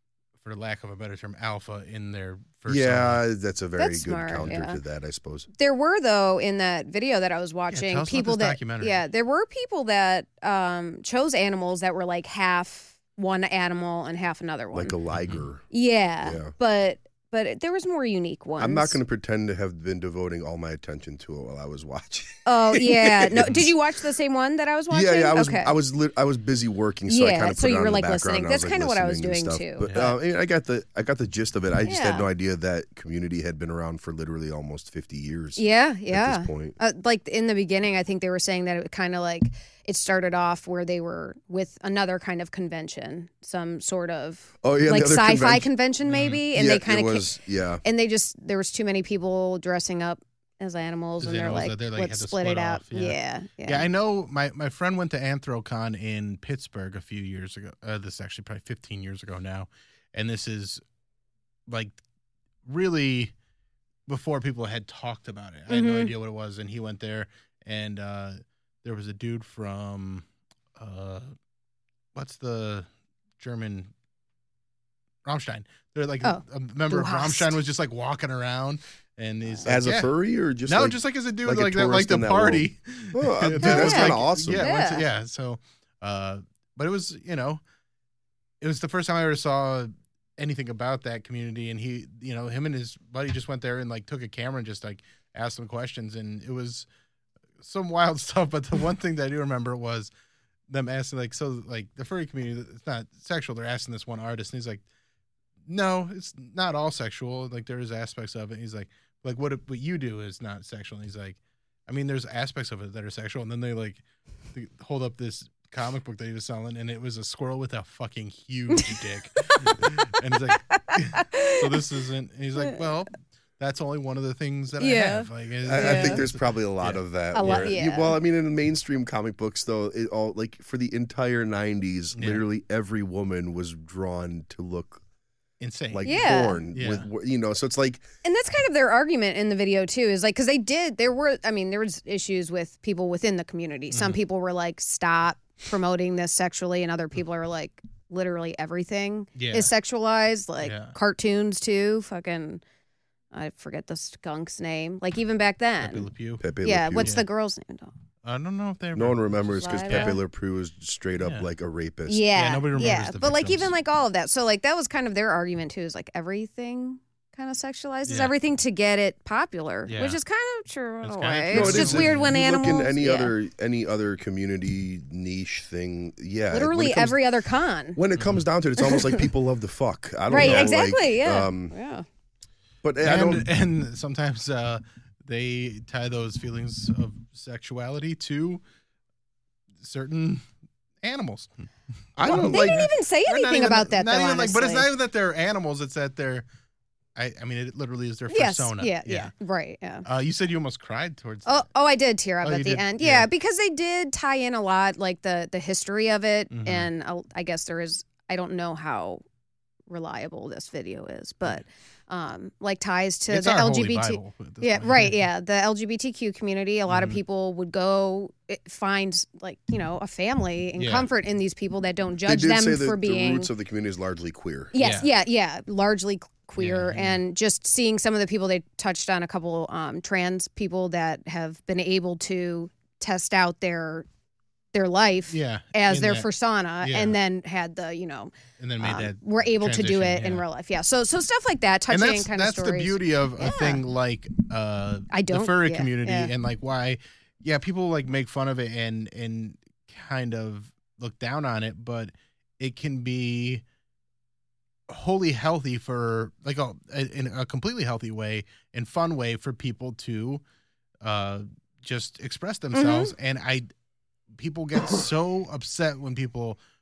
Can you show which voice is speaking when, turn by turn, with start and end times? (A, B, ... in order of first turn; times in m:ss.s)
0:00.4-0:03.2 A
0:02.7-0:05.5 B
0:03.8-0:04.8 C
0:05.6-0:14.9 C
0:07.7-0:09.0 A
0:14.7-0:15.6 B
0:15.2-0:15.5 A
0:15.7-0:19.0 C
0:16.2-0:16.5 B
0:18.6-0:23.7 B
0:22.4-0:25.8 C
0:24.9-0:36.8 B
0:27.1-0:30.0 C
0:29.8-0:30.2 A
0:31.8-0:32.3 C
0:35.6-0:53.9 C
0:44.6-0:45.7 B
0:46.1-0:46.4 A
0:46.5-0:47.8 B
0:51.2-1:00.8 A
1:01.7-1:02.0 A
1:02.7-1:03.3 A
1:04.1-1:10.3 A
1:05.7-1:06.1 C
1:10.8-1:11.3 A
1:12.2-1:12.9 A
1:13.4-1:13.9 A
1:15.2-1:20.1 A
1:16.2-1:17.6 C
1:19.6-1:24.7 B
1:20.7-1:27.6 A
1:23.6-1:25.0 C
1:28.6-1:36.9 A
1:37.6-1:40.1 A
1:40.7-1:44.8 A
1:45.7-1:54.0 A
1:54.5-2:07.7 A
1:58.7-1:59.9 C
2:00.7-2:01.7 C
2:04.8-2:06.2 C
2:05.6-2:15.0 B
2:07.3-2:08.2 C
2:12.1-2:12.4 A
2:15.6-2:17.1 A
2:15.9-2:18.1 B
2:16.0-2:16.6 C
2:18.2-2:32.6 C
2:23.9-2:24.2 A
2:29.4-2:29.7 A
2:30.6-2:31.0 A
2:33.3-2:36.1 C
2:35.8-2:36.5 A
2:36.4-2:37.1 B
2:36.6-2:37.9 C
2:37.0-2:37.3 A
2:38.2-2:40.2 A
2:38.9-2:42.3 B
2:39.5-2:40.2 C
2:41.2-2:41.5 A
2:42.1-2:53.3 C
2:42.3-2:43.7 A
2:48.1-2:48.3 A
2:49.9-2:50.2 A
2:51.0-2:52.3 A
2:51.5-2:57.2 B
2:56.5-2:58.0 C
2:58.0-3:01.8 B
2:58.2-2:58.4 A
2:58.8-2:59.2 C
3:00.3-3:02.0 C
3:00.3-3:00.7 A
3:02.8-3:03.5 B
3:03.0-3:08.6 A
3:09.8-3:10.4 A
3:11.0-3:11.6 A
3:12.2-3:16.4 A
3:12.2-3:12.9 B
3:12.2-3:14.9 C
3:17.2-3:19.3 A
3:18.3-3:20.0 C
3:20.0-3:21.6 A
3:21.5-3:29.2 C
3:22.4-3:23.3 A
3:26.5-3:26.9 A
3:29.9-3:43.5 C
3:33.3-3:35.2 A
3:36.9-3:37.2 A
3:40.8-3:41.1 A
3:42.3-3:44.8 B
3:44.7-3:54.0 C
3:44.8-3:45.1 A
3:46.6-3:47.2 A
3:54.7-4:03.8 C
3:55.3-3:56.3 A
3:56.8-3:57.2 A
3:58.6-4:00.4 A
4:01.9-4:13.6 A
4:05.1-4:06.3 C
4:14.9-4:20.4 A
4:21.0-4:23.7 A
4:22.7-4:23.1 C
4:24.4-4:26.6 A